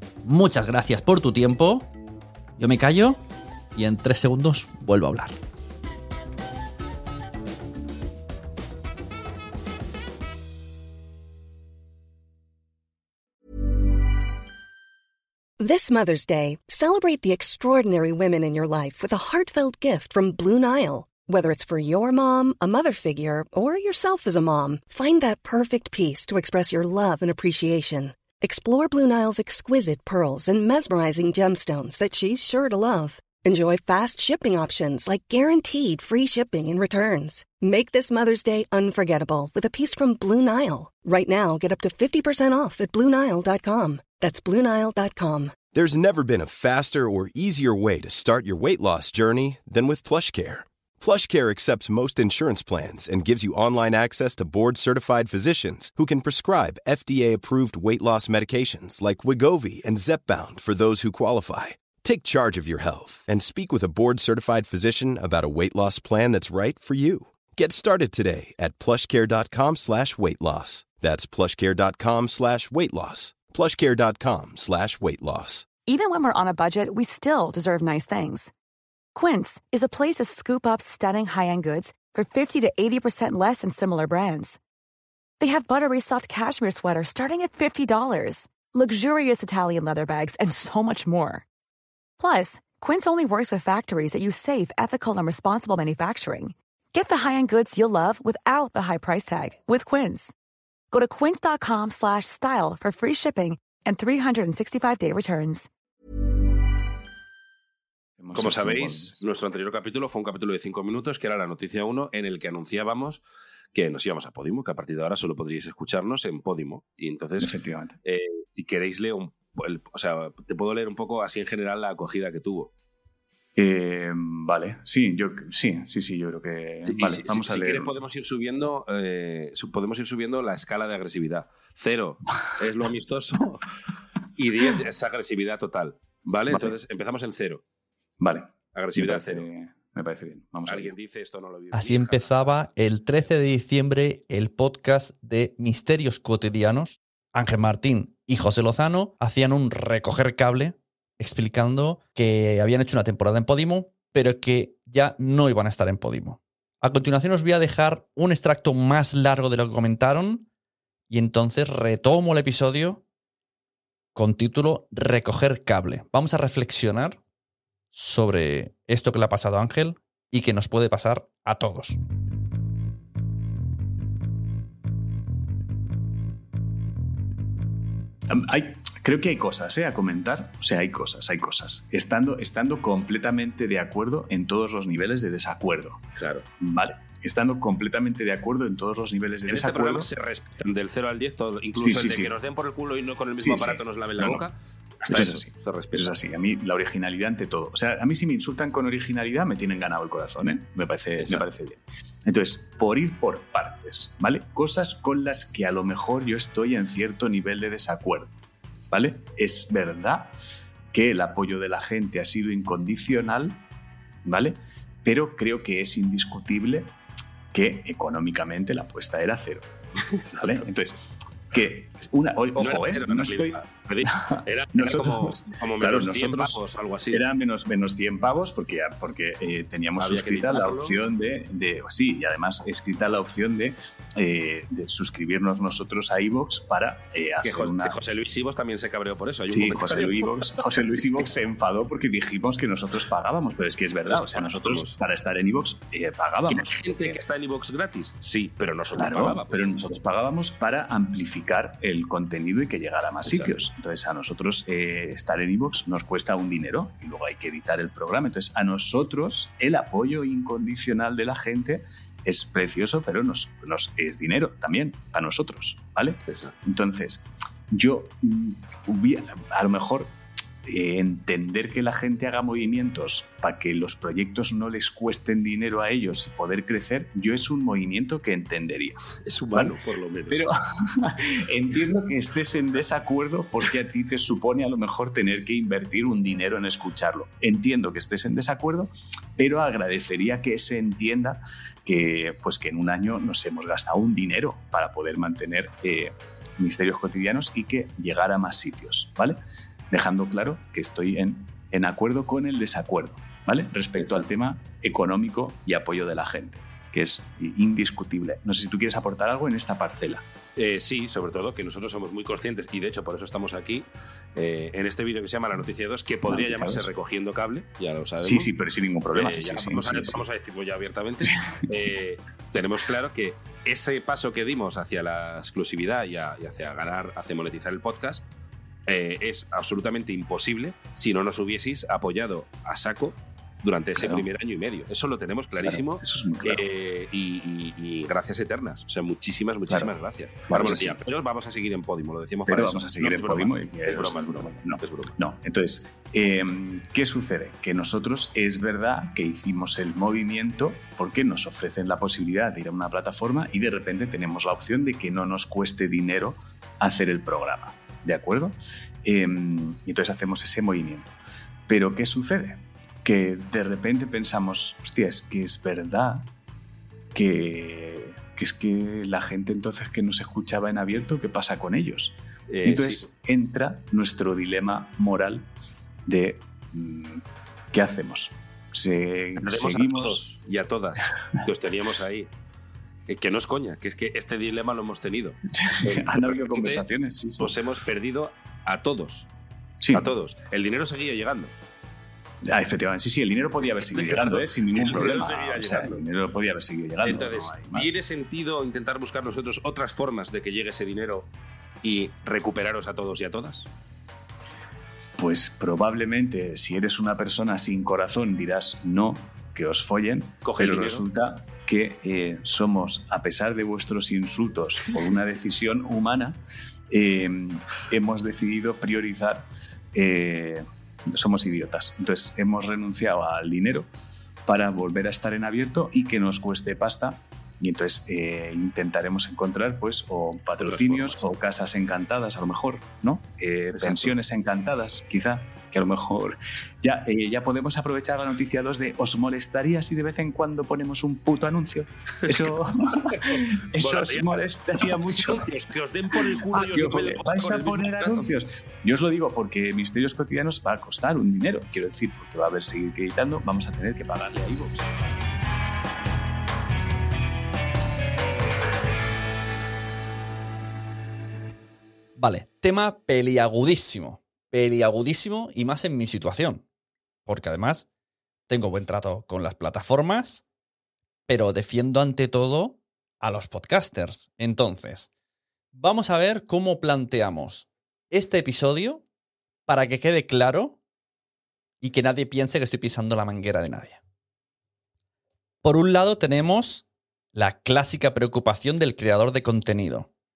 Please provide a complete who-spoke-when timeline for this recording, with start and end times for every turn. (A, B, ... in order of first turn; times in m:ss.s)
0:00.2-0:01.9 A
0:02.6-0:03.2 A
0:03.8-0:05.4 A
0:15.6-0:45.6 B
0:45.7-1:15.7 C
1:15.9-1:18.5 D
1:19.1-1:24.6 D
1:25.4-1:31.5 D
1:32.2-1:40.3 D
1:40.9-1:45.7 D
1:48.2-1:49.2 E
1:48.3-1:53.2 F
1:53.7-1:57.5 F
1:57.4-1:58.0 E
1:58.0-2:02.7 F
2:03.6-2:07.9 E
2:06.9-2:13.7 F
2:14.4-2:17.6 F
2:16.5-2:16.7 E
2:18.2-2:20.9 E
2:18.7-2:19.4 F
2:20.7-2:22.5 F
2:21.7-2:40.5 A
2:41.1-2:43.0 A
2:44.2-2:47.2 A
2:47.9-2:52.0 A
2:58.3-3:06.0 E
3:06.2-3:06.4 F
3:06.6-3:10.1 E
3:09.5-3:16.1 F
3:11.8-3:12.3 E
3:13.4-3:14.4 E
3:15.1-3:28.3 E
3:21.2-3:21.4 F
3:28.9-3:30.3 E
3:30.9-3:33.6 E
3:34.2-3:36.9 E
3:37.5-3:39.7 E
3:40.2-3:43.6 E
3:42.6-3:47.2 F
3:44.1-3:46.6 E
3:47.1-3:58.0 E
3:50.0-3:51.0 F
3:57.4-4:01.3 F
3:59.5-4:07.2 E
4:04.1-4:05.0 F
4:06.5-4:09.8 F
4:08.9-4:39.8 E
4:13.2-4:13.6 F
4:39.2-4:40.5 F
4:40.3-4:59.4 E
4:59.9-5:10.2 E
5:04.0-5:04.3 F
5:10.6-5:18.5 F
5:16.3-5:16.9 E
5:18.2-5:20.2 E
5:19.1-5:28.2 F
5:28.9-5:45.1 F
5:34.0-5:34.3 E
5:35.6-5:36.6 E
5:40.5-5:41.0 E
5:42.5-6:01.1 E
6:01.7-6:06.3 E
6:07.1-6:15.5 E
6:12.5-6:13.0 F
6:16.1-6:20.3 E
6:19.4-6:22.3 F
6:23.1-6:26.9 F
6:25.5-6:27.6 E
6:27.4-6:29.3 F
6:29.8-6:30.1 E
6:29.9-6:31.5 F
6:32.4-6:37.9 E
6:33.6-6:36.0 F
6:37.0-6:41.3 F
6:41.8-6:43.7 F
6:45.2-6:56.4 E
6:50.4-6:51.0 F
6:56.9-7:03.9 E
7:04.5-7:25.5 E
7:10.6-7:11.2 F
7:13.5-7:14.2 F
7:22.2-7:22.6 F
7:23.3-7:28.3 F
7:26.1-7:35.2 E
7:42.2-7:46.6 A
7:47.3-7:47.9 A
7:48.5-7:50.4 A
7:51.3-7:55.1 A
7:55.7-7:59.0 A
7:59.7-8:00.8 A
8:01.8-8:04.0 A
8:05.6-8:10.1 A